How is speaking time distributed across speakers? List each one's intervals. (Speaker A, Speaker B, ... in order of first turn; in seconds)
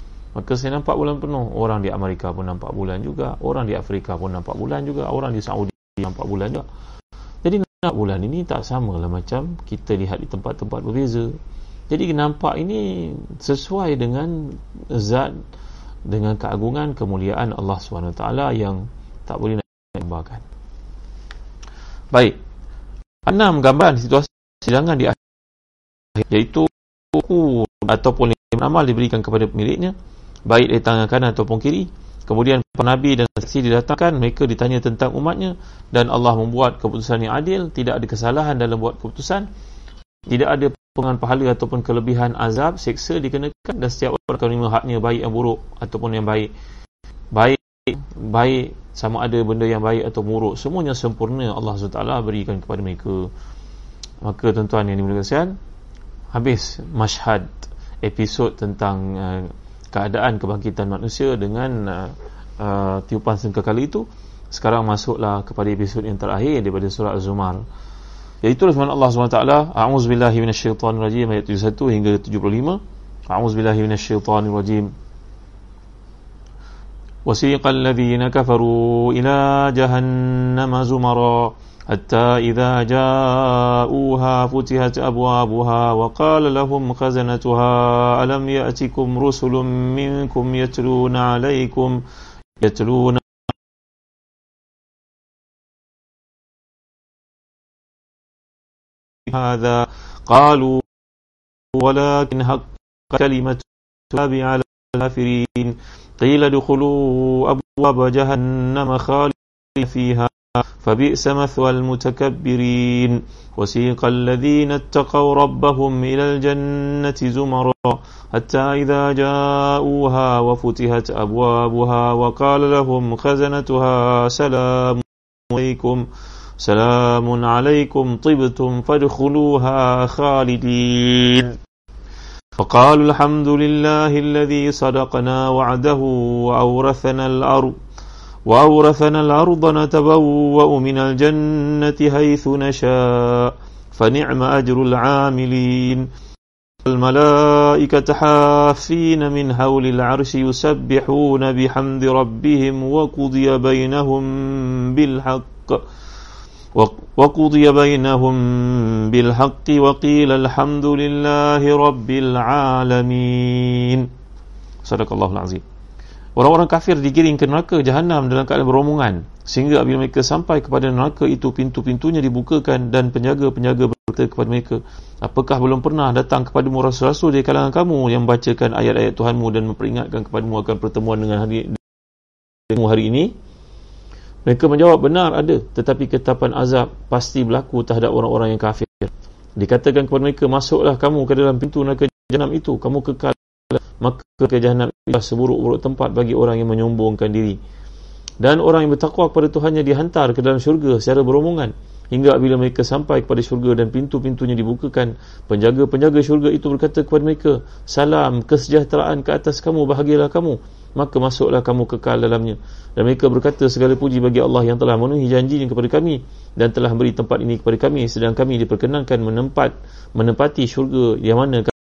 Speaker A: 0.3-6.7, 7.4-11.4, 11.9-15.4, 16.1-20.4, 22.1-22.4, 23.3-25.2, 26.1-29.9, 30.5-39.5, 40.3-46.5, 47.3-53.3, 54.2-55.6, 56.3-67.7, 68.4-74.9, 77.3-92.0, 92.6-93.4, 99.3-100.9, 101.7-126.1, 126.6-131.6, 132.6-137.8, 138.5-146.1, 146.8-155.8, 156.8-164.1, 164.8-165.6, 166.4-181.8, 182.7-183.3, 184.5-197.6, 198.4-221.8